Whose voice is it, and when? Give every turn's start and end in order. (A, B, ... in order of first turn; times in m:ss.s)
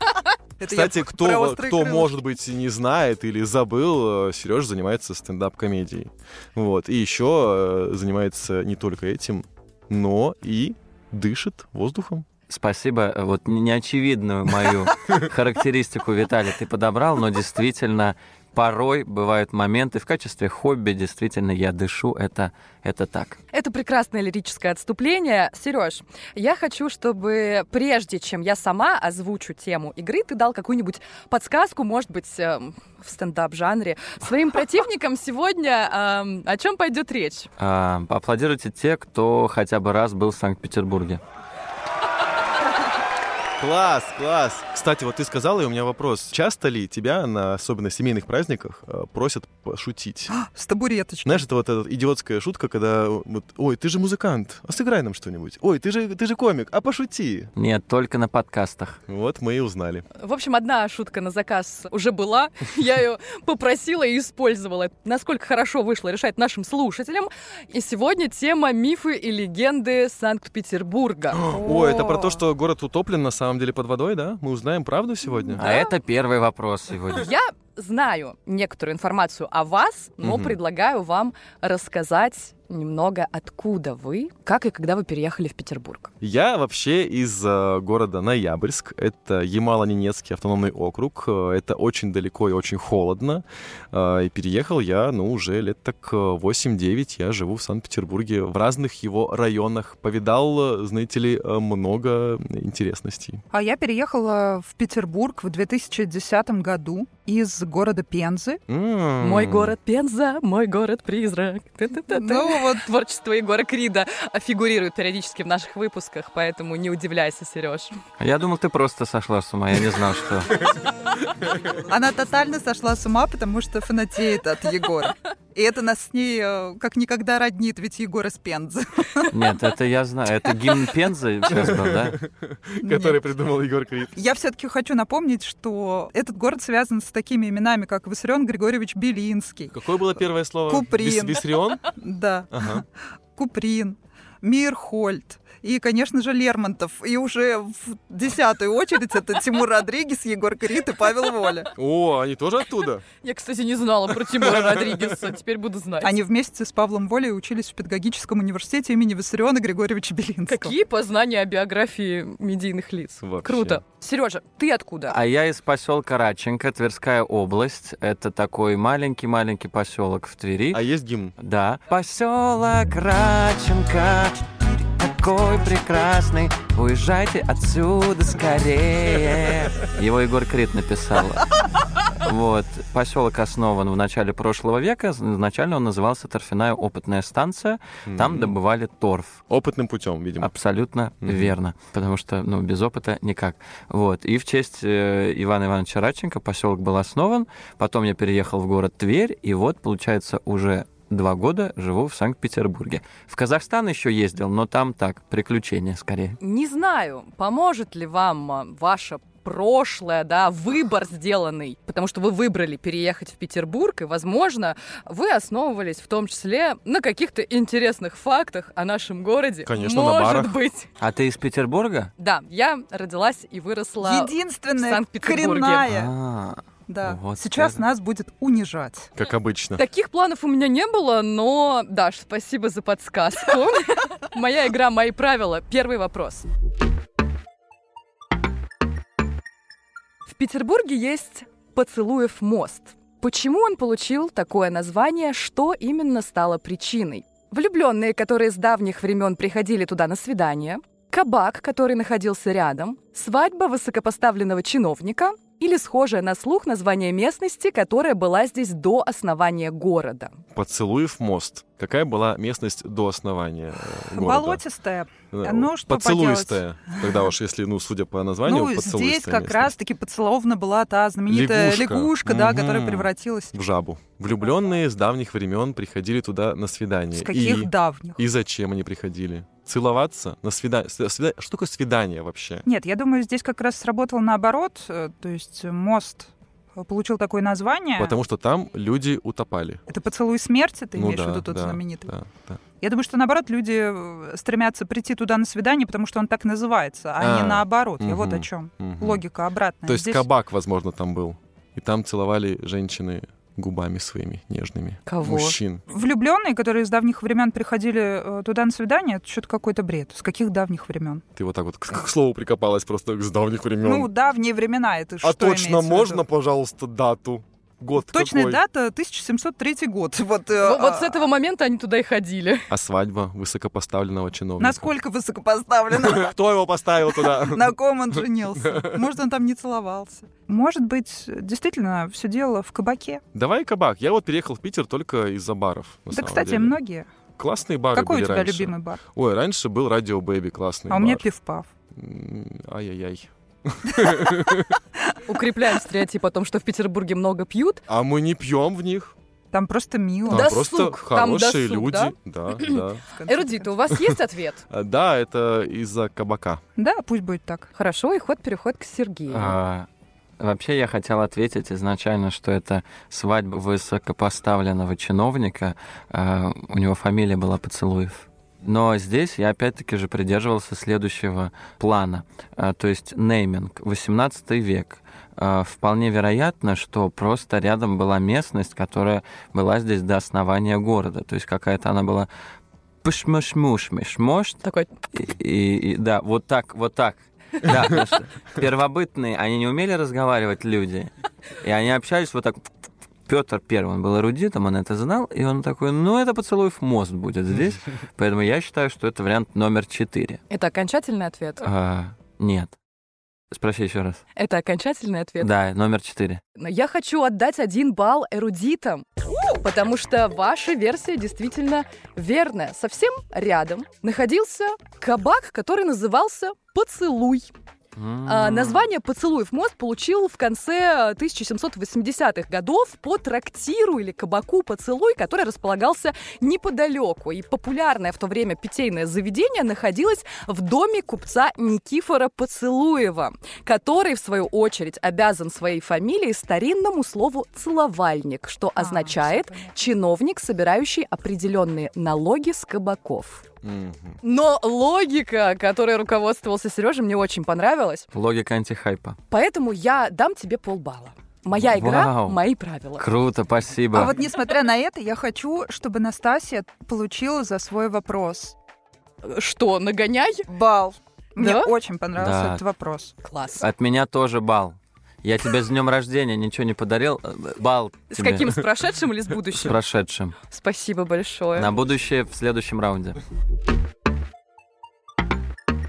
0:00.6-0:02.1 A
0:00.6-0:12.3 B
0:12.5-0:23.4 C
0:23.5-0:37.5 D
0:37.6-0:41.2 C
0:43.6-0:50.3 B
0:50.3-0:51.4 A
0:51.2-0:57.5 B
0:57.6-0:59.0 C
0:59.1-1:00.0 B
1:00.1-1:11.4 D
1:11.3-1:15.6 B
1:11.5-1:12.4 A
1:15.6-1:17.3 C
1:15.6-1:15.9 D
1:17.1-1:26.1 D
1:20.2-1:20.6 B
1:26.2-1:43.4 B
1:43.5-1:48.6 A
1:48.7-1:49.8 B
1:49.2-1:58.0 D
1:52.1-1:52.8 A
1:58.2-2:00.8 C
2:01.9-2:09.3 A
2:09.3-2:12.2 C
2:11.5-2:14.1 B
2:12.8-2:13.2 A
2:14.1-2:19.7 A
2:19.7-2:21.8 B
2:20.7-2:22.8 A
2:22.5-2:22.8 B
2:23.4-2:31.7 A
2:31.7-2:33.0 B
2:33.2-2:36.1 D
2:34.2-2:35.1 B
2:36.0-2:40.7 A
2:40.5-2:45.2 D
2:43.2-2:43.8 B
2:45.1-2:50.8 C
2:50.7-2:51.3 B
2:51.4-3:01.5 C
3:02.1-3:09.4 C
3:08.0-3:08.5 B
3:09.5-3:10.5 B
3:10.4-3:26.4 C
3:11.2-3:11.5 B
3:26.4-3:40.9 D
3:39.6-3:40.6 B
3:41.0-3:42.1 C
3:42.2-3:45.8 D
3:44.0-3:46.1 A
3:45.8-3:47.8 C
3:46.9-3:49.1 A
3:49.2-3:49.8 B
3:49.8-3:56.5 D
4:00.3-4:20.4 D
4:20.5-4:24.6 B
4:24.1-4:27.2 A
4:25.3-4:29.7 B
4:28.4-4:33.5 A
4:31.3-4:42.6 B
4:37.1-4:38.2 A
4:42.6-4:48.1 A
4:48.0-4:49.8 B
4:49.9-4:52.1 A
4:50.9-4:52.6 B
4:52.8-5:00.3 A
4:57.2-4:59.2 B
4:59.8-5:05.8 B
5:05.0-5:05.6 D
5:05.9-5:11.2 A
5:11.4-5:14.1 B
5:13.8-5:16.2 A
5:15.2-5:18.6 B
5:18.0-5:21.2 A
5:20.6-5:22.7 D
5:22.7-5:24.9 B
5:24.6-5:26.3 A
5:26.0-5:27.7 B
5:27.1-5:33.2 A
5:28.6-5:28.9 B
5:33.3-5:36.8 B
5:36.1-5:37.1 A
5:37.4-5:41.3 B
5:37.9-5:39.0 A
5:40.9-5:41.7 A
5:41.9-5:44.8 B
5:45.3-5:47.8 D
5:47.9-5:49.1 B
5:49.5-5:50.5 A
5:50.3-5:54.6 D
5:50.3-5:53.0 B
5:53.1-5:53.7 A
5:54.7-5:56.6 B
5:56.8-5:57.7 A
5:57.7-5:59.6 D
5:59.3-5:59.9 C
6:00.4-6:22.3 C
6:23.0-6:24.6 C
6:24.6-6:24.9 D
6:25.1-6:32.7 C
6:33.3-6:40.4 C
6:40.5-6:41.6 D
6:41.6-6:42.8 C
6:43.5-6:44.2 C
6:44.4-6:45.5 D
6:45.4-6:46.4 C
6:46.5-6:57.5 D
6:58.0-6:58.9 C
6:58.2-7:23.4 D
7:18.8-7:19.7 A
7:23.6-7:24.2 B
7:24.2-7:28.1 D
7:28.1-7:29.2 C
7:29.3-7:33.0 D
7:31.5-7:32.4 C
7:33.0-7:34.2 C
7:33.9-7:38.6 A
7:39.2-7:40.5 D
7:40.5-7:43.1 A
7:41.4-7:41.7 D
7:42.2-7:42.6 C
7:43.2-7:43.6 D
7:43.6-7:48.6 C
7:48.1-7:49.7 D
7:49.4-7:50.4 C
7:50.5-7:51.7 D
7:51.5-7:53.2 C